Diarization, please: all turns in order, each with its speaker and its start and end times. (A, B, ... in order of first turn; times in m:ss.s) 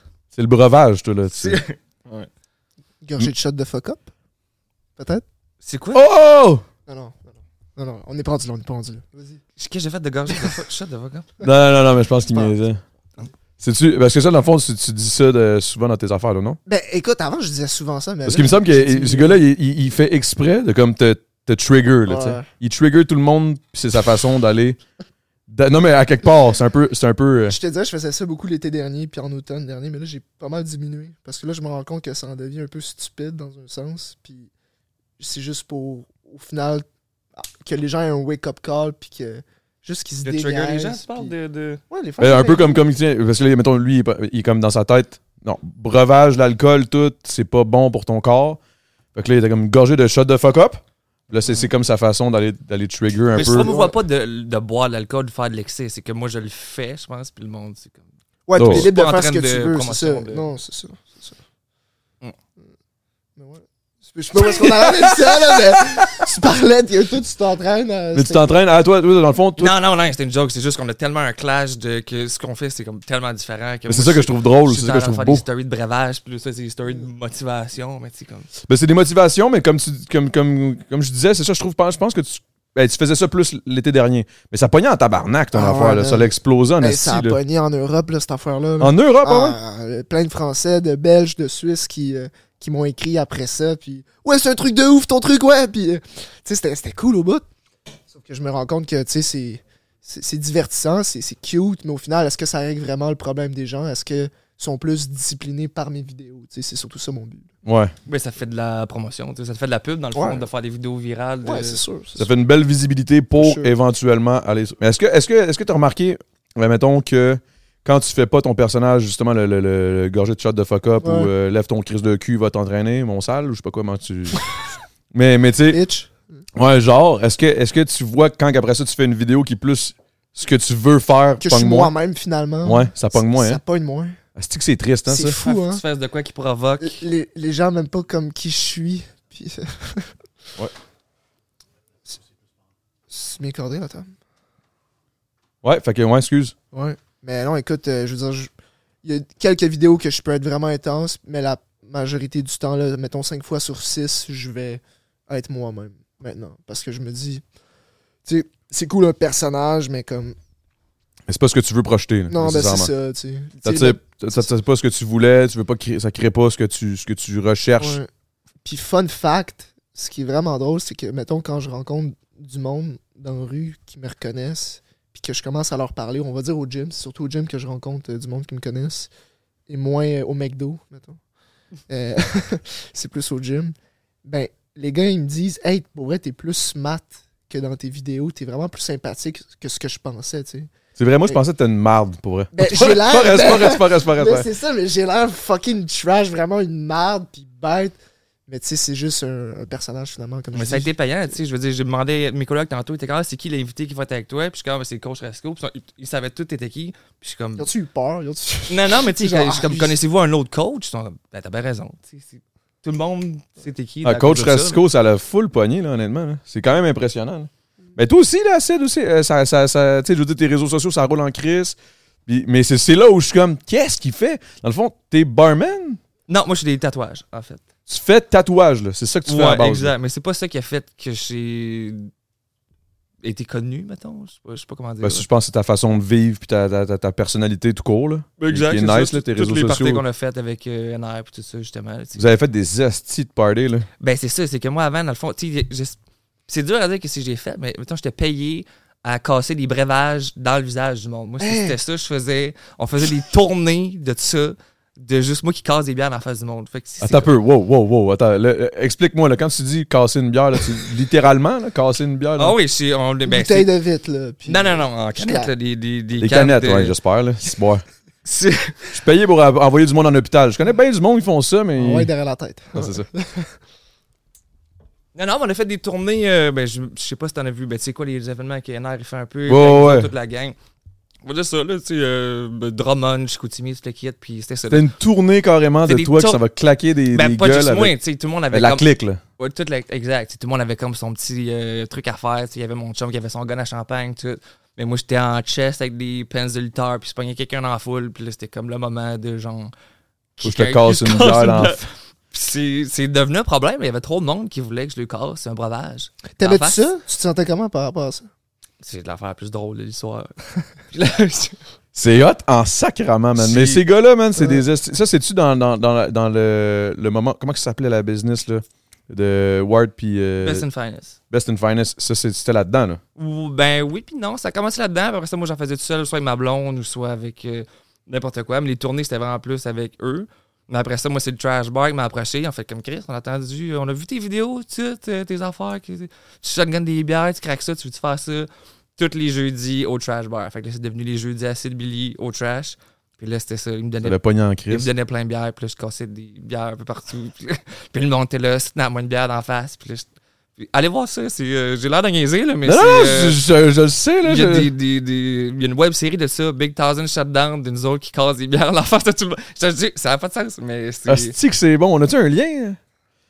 0:00.3-0:01.6 A
0:01.3-0:02.3 B
0:03.0-0:04.1 C
0:05.0-0:05.2 C
0:05.6-0:06.0 B
0:05.9-0:06.6 A
0:06.9-0:09.4 C
0:09.6-0:11.3 B
0:11.4-0:12.8 A
0:12.3-0:12.6 C
0:13.6-0:16.6 A
0:16.6-0:19.4 C
0:18.2-0:24.8 A
0:22.1-0:22.5 C
0:25.5-0:27.6 A
0:27.5-0:34.5 C
0:35.2-0:36.8 C
0:37.4-0:41.3 C
0:40.2-0:41.8 B
0:41.9-0:42.8 C
0:42.2-0:48.6 A
0:49.1-0:53.7 A
0:53.3-0:54.0 C
0:53.3-0:58.0 B
0:58.5-1:01.4 C
0:58.6-0:58.9 A
0:58.6-1:00.4 B
1:03.4-1:08.5 C
1:04.4-1:06.2 A
1:08.1-1:09.7 A
1:09.6-1:18.5 B
1:13.9-1:15.4 A
1:18.7-1:27.4 A
1:25.5-1:37.4 C
1:28.8-1:29.6 A
1:38.1-1:47.5 C
1:47.6-1:47.9 A
1:48.1-1:51.8 B
1:50.1-1:50.4 C
1:51.4-1:52.3 C
1:52.2-2:04.5 A
1:53.4-1:53.7 C
2:01.0-2:01.3 C
2:05.1-2:05.8 A
2:05.7-2:06.2 C
2:06.5-2:11.9 A
2:11.4-2:14.2 C
2:12.6-2:13.6 A
2:14.3-2:15.4 A
2:15.1-2:15.8 C
2:15.4-2:17.0 B
2:16.8-2:20.1 C
2:23.1-2:24.1 C
2:25.6-2:26.5 A
2:26.7-2:28.5 C
2:29.0-2:37.4 C
2:38.2-2:40.4 C
2:41.3-2:42.9 A
2:42.3-2:44.5 C
2:43.6-2:48.0 A
2:47.8-2:48.1 C
2:48.6-2:59.1 C
2:59.7-3:01.2 C
3:01.9-3:10.7 C
3:11.0-3:14.5 A
3:12.5-3:18.0 C
3:18.5-3:20.9 C
3:20.5-3:27.7 B
3:27.6-3:30.0 C
3:28.7-3:34.8 B
3:34.0-3:41.8 A
3:42.3-3:46.0 A
3:46.3-3:47.6 B
3:47.9-3:49.9 A
3:49.3-3:52.1 B
3:53.2-3:55.2 B
3:55.0-4:00.0 A
3:58.4-4:02.2 B
4:02.2-4:03.9 A
4:04.0-4:06.0 B
4:06.5-4:17.3 B
4:11.4-4:11.8 C
4:17.0-4:22.6 A
4:22.4-4:23.7 B
4:23.2-4:25.5 C
4:24.4-4:26.9 B
4:26.2-4:27.8 A
4:28.2-4:28.9 B
4:28.9-4:32.1 A
4:31.8-4:33.5 C
4:32.7-4:33.0 A
4:35.1-4:40.6 B
4:39.5-4:40.1 A
4:41.2-4:44.9 B
4:44.7-4:47.9 A
4:45.8-4:46.4 B
4:47.1-4:48.8 B
4:48.5-4:49.2 A
4:49.4-4:59.7 B
5:00.4-5:06.8 B
5:00.4-5:01.8 A
5:06.4-5:08.3 C
5:08.8-5:10.3 B
5:10.9-5:11.6 B
5:11.9-5:20.6 A
5:13.4-5:13.8 B
5:20.4-5:21.2 B
5:21.3-5:23.0 A
5:23.2-5:44.2 B
5:44.0-5:44.9 A
5:44.7-5:50.1 B
5:50.6-5:53.4 B
5:52.6-5:54.7 A
5:54.2-6:01.3 B
6:01.1-6:02.8 A